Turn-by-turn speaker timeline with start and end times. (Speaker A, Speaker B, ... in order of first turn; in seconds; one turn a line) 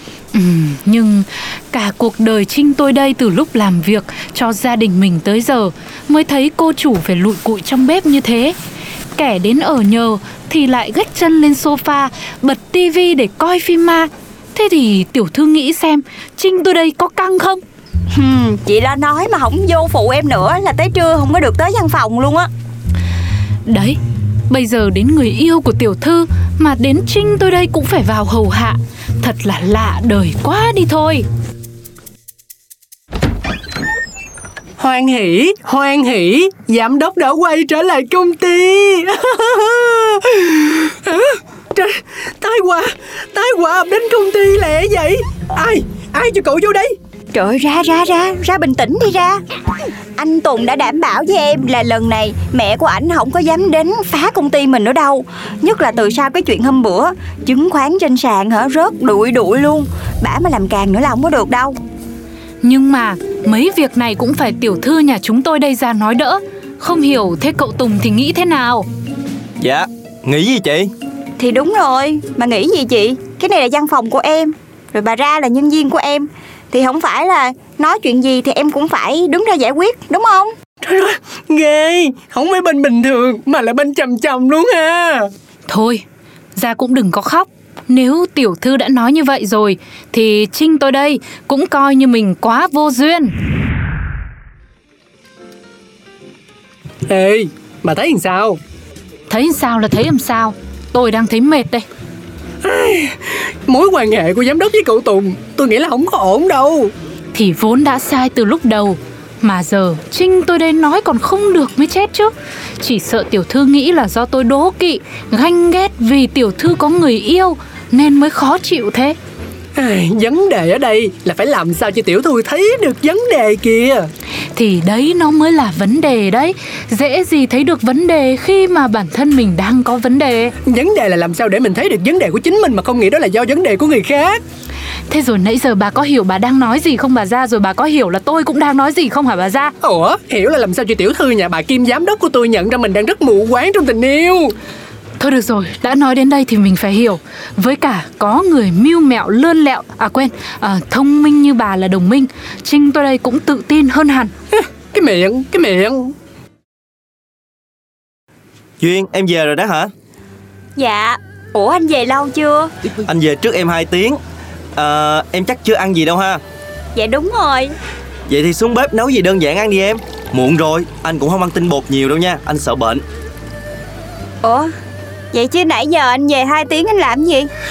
Speaker A: 0.3-8.6
Speaker A: 9.2-17.6
Speaker B: 18.1-22.5
Speaker A: 23.7-31.3
Speaker C: 34.8-47.0
Speaker B: 47.3-49.4
Speaker B: 50.2-61.7
Speaker A: 62.6-68.9
Speaker D: 69.6-70.9
Speaker B: 71.4-80.5
Speaker C: 80.8-85.3
Speaker A: 85.7-86.0
Speaker A: 86.5-93.3
Speaker C: 97.1-98.6
Speaker A: 99.3-101.8
Speaker C: 102.6-106.9
Speaker A: 107.3-119.2
Speaker C: 119.8-124.1
Speaker A: 124.5-130.5
Speaker C: 130.6-134.4
Speaker A: 135.1-139.7
Speaker C: 139.8-144.6
Speaker A: 145.2-154.3
Speaker C: 154.5-156.2
Speaker D: 158.8-159.9
Speaker B: 160.8-162.7
Speaker D: 163.1-164.2
Speaker D: 164.8-166.4
Speaker B: 166.9-167.7
Speaker D: 168.3-173.0
Speaker B: 174.4-174.7
Speaker B: 175.3-177.5